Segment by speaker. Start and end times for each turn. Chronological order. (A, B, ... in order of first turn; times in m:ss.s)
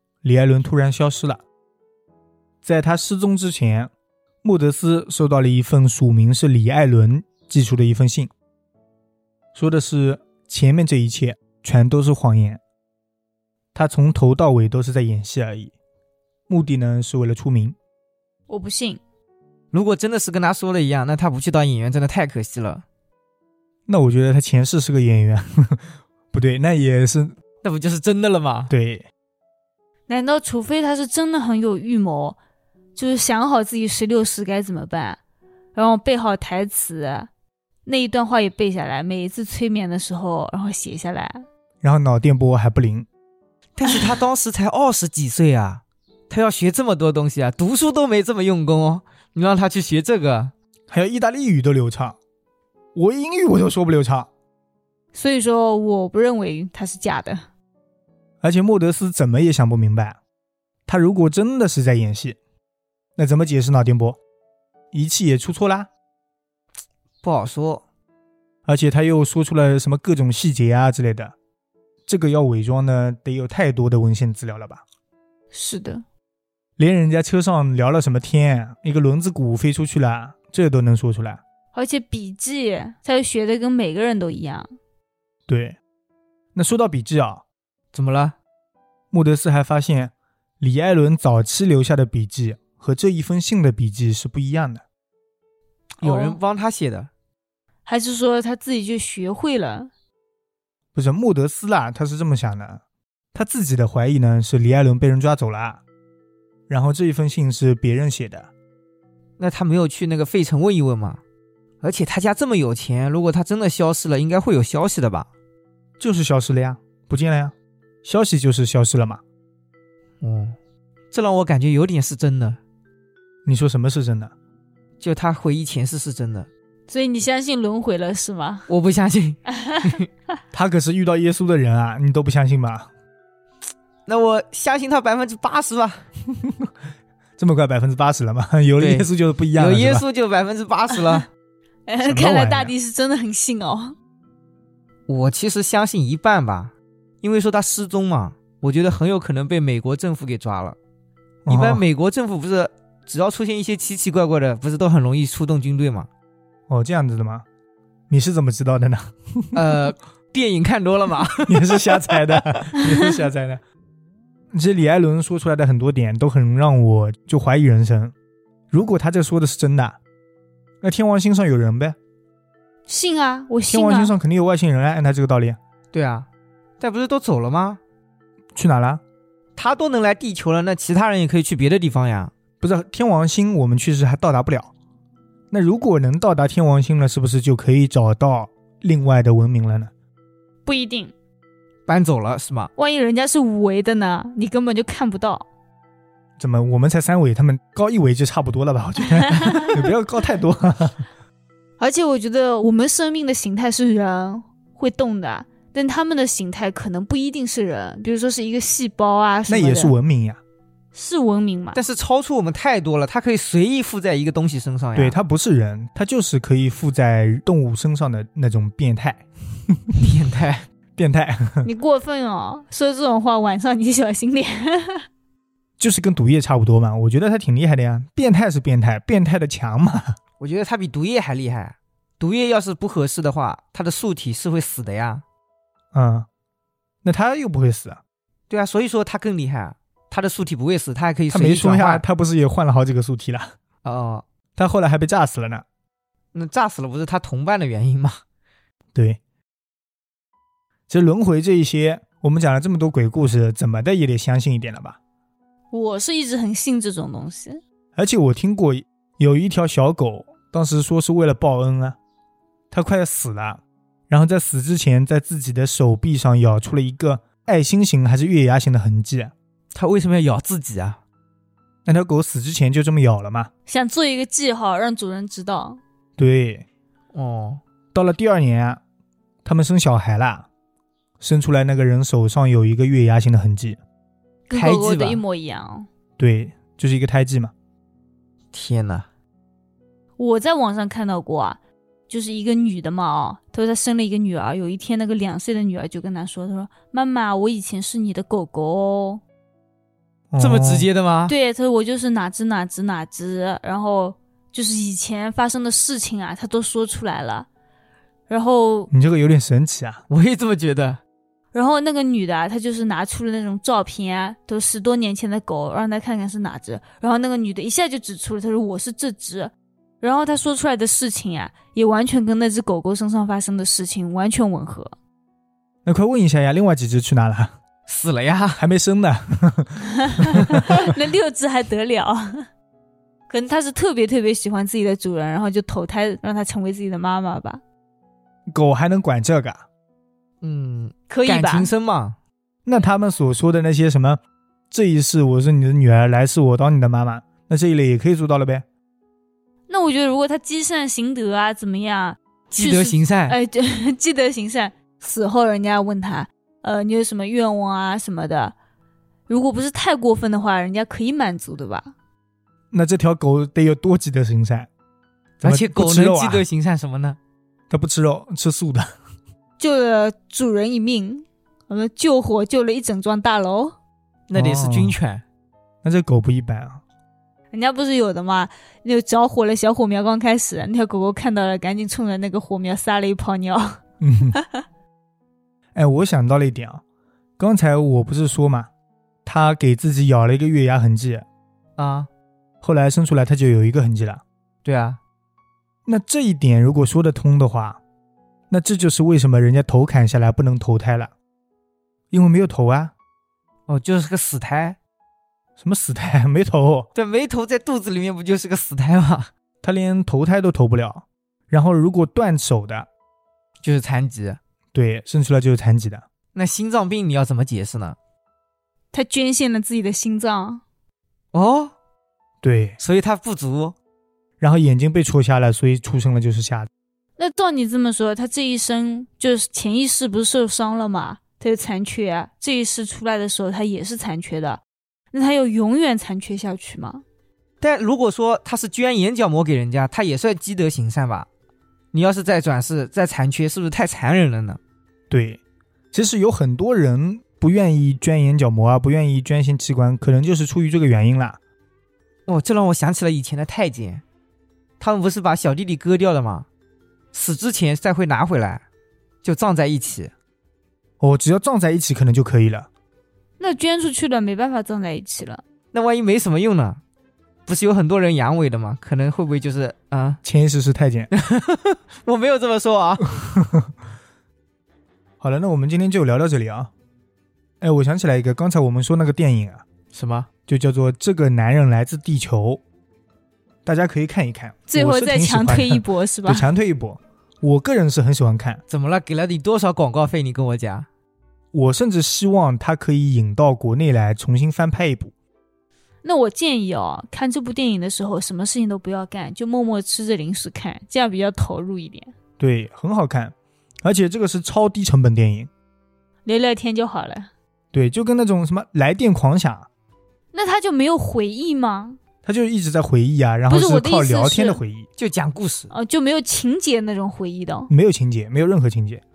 0:00.2-0:01.4 A
0:02.6-0:03.9 A
0:04.4-0:08.3 A
0:09.5-0:12.6 A
0:13.7-0:15.7 A
0:16.5-0:17.8 A
0:18.5-0:19.0 B
0:19.7-0:22.8 C
0:23.9-0:27.4 A
0:27.6-0:28.7 C
0:28.7-0:29.1 A
0:30.1-0:32.4 B
0:32.9-0:35.2 B
0:35.7-0:37.3 B
0:37.8-0:41.4 B
0:41.8-0:43.1 A
0:43.8-0:50.5 C
0:50.9-0:52.2 A
0:52.9-0:54.3 A
0:55.1-0:57.4 B
0:58.4-1:00.2 A
1:00.9-1:02.4 A
1:03.2-1:04.2 A
1:04.9-1:05.9 A
1:07.2-1:07.8 C
1:08.6-1:11.3 A
1:12.1-1:14.8 A
1:15.5-1:16.0 B
1:16.8-1:21.4 A
1:21.7-1:24.7 B
1:25.5-1:25.8 A
1:26.5-1:27.4 A
1:27.9-1:28.3 C
1:29.1-1:34.8 A
1:36.0-1:36.4 B
1:36.0-1:37.1 C
1:37.8-1:39.9 B
1:40.9-1:42.8 A
1:43.3-1:45.8 A
1:46.7-1:48.5 A
1:49.4-1:51.2 C
1:51.8-1:55.3 C
1:56.0-1:59.2 A
2:00.2-2:00.6 C
2:01.1-2:02.6 C
2:03.4-2:04.3 A
2:05.0-2:06.5 C
2:06.9-2:08.7 B
2:08.7-2:10.0 C
2:09.5-2:09.9 B
2:10.5-2:12.9 A
2:14.0-2:16.0 C
2:16.3-2:16.7 A
2:17.4-2:20.0 A
2:18.8-2:21.3 C
2:21.9-2:23.9 B
2:22.0-2:22.7 A
2:25.1-2:30.8 C
2:31.4-2:31.8 A
2:31.5-2:36.1 C
2:36.7-2:37.4 A
2:38.1-2:39.8 A
2:39.5-2:42.7 C
2:41.5-2:43.6 A
2:44.5-2:48.1 A
2:48.7-2:50.0 A
2:50.8-2:52.0 A
2:52.9-2:54.1 B
2:53.7-2:55.6 A
2:55.9-2:56.3 C
2:56.8-2:57.8 C
2:58.5-2:59.0 A
2:59.6-3:02.3 C
3:02.6-3:04.7 A
3:05.5-3:09.9 A
3:10.6-3:11.1 B
3:11.9-3:12.7 C
3:12.8-3:15.4 B
3:16.4-3:21.1 A
3:19.4-3:19.7 B
3:21.8-3:29.9 B
3:29.5-3:30.4 A
3:30.9-3:31.8 B
3:31.7-3:35.2 C
3:34.9-3:40.1 A
3:40.0-3:40.6 C
3:41.0-3:41.7 A
3:41.6-3:45.0 B
3:45.8-3:50.2 A
3:50.4-3:55.2 C
3:55.9-3:56.3 A
3:57.0-3:58.0 A
3:58.5-4:02.0 C
4:01.3-4:03.5 A
4:03.8-4:04.2 C
4:04.6-4:05.6 A
4:06.3-4:08.2 C
4:08.9-4:09.2 A
4:10.9-4:15.0 A
4:15.7-4:17.6 B
4:18.0-4:22.0 A
4:22.7-4:29.3 A
4:29.7-4:31.0 C
4:31.8-4:33.5 A
4:33.7-4:35.8 B
4:36.2-4:36.6 A
4:37.1-4:37.6 C
4:37.9-4:38.8 A
4:39.4-4:40.5 A
4:41.2-4:43.8 A
4:44.5-4:45.9 B
4:44.5-4:45.2 C
4:46.2-4:47.5 A
4:48.5-4:49.1 C
4:50.2-4:59.2 B
5:00.3-5:00.9 A
5:00.4-5:01.3 C
5:01.3-5:07.5 B
5:08.3-5:08.9 B
5:08.9-5:10.0 A
5:10.1-5:11.0 C
5:11.5-5:24.9 B
5:25.8-5:27.5 A
5:27.9-5:28.6 C
5:28.6-5:30.9 A
5:30.0-5:32.4 B
5:33.3-5:37.6 B
5:38.5-5:39.6 A
5:40.4-5:42.2 C
5:41.1-5:41.7 B
5:42.6-5:48.6 A
5:49.7-5:58.5 B
5:52.5-5:53.4 C
5:59.3-6:01.9 B
6:02.7-6:04.7 A
6:05.4-6:07.2 C
6:05.4-6:06.4 A
6:07.7-6:08.9 A
6:09.6-6:13.8 B
6:14.3-6:15.2 C
6:14.3-6:15.0 A
6:15.8-6:16.8 A
6:17.5-6:23.8 B
6:24.0-6:24.3 A
6:24.3-6:24.6 B
6:25.7-6:26.8 A
6:27.4-6:28.7 A
6:29.2-6:31.2 A
6:31.8-6:32.1 C
6:32.6-6:34.2 A
6:34.6-6:35.0 C
6:35.8-6:37.8 A
6:38.5-6:41.1 A
6:42.1-6:42.9 A
6:43.7-6:44.8 C
6:45.6-6:46.9 A
6:46.9-6:49.3 C
6:49.6-6:52.9 A
6:53.6-6:54.4 C
6:54.7-6:56.0 A
6:56.3-6:58.0 C
6:58.9-7:00.6 B
7:01.3-7:01.7 C
7:02.4-7:02.8 A
7:02.8-7:03.8 C
7:04.4-7:06.7 A
7:07.2-7:17.0 B
7:17.6-7:21.3 C
7:21.9-7:24.6 C
7:25.1-7:25.4 A
7:25.9-7:31.4 A
7:32.3-7:34.0 C
7:34.8-7:36.4 C
7:37.1-7:38.6 C
7:39.2-7:40.1 C
7:41.0-7:42.7 A
7:43.4-7:45.4 B
7:45.7-7:46.8 C
7:47.5-7:50.2 C
7:50.2-7:51.1 A
7:51.1-7:53.2 C
7:53.2-7:53.7 A
7:55.2-7:56.7 A
7:57.6-7:59.6 A
7:59.9-8:00.3 C
8:00.5-8:02.6 A
8:03.6-8:08.6 A
8:04.7-8:06.5 B
8:08.7-8:10.9 C
8:11.5-8:15.1 A
8:16.0-8:22.1 B
8:22.4-8:25.5 A
8:26.2-8:27.3 B
8:27.7-8:29.7 A
8:30.3-8:32.0 B
8:32.2-8:34.9 A
8:33.5-8:34.6 B
8:35.0-8:35.7 C
8:35.7-8:37.7 B
8:37.7-8:39.0 A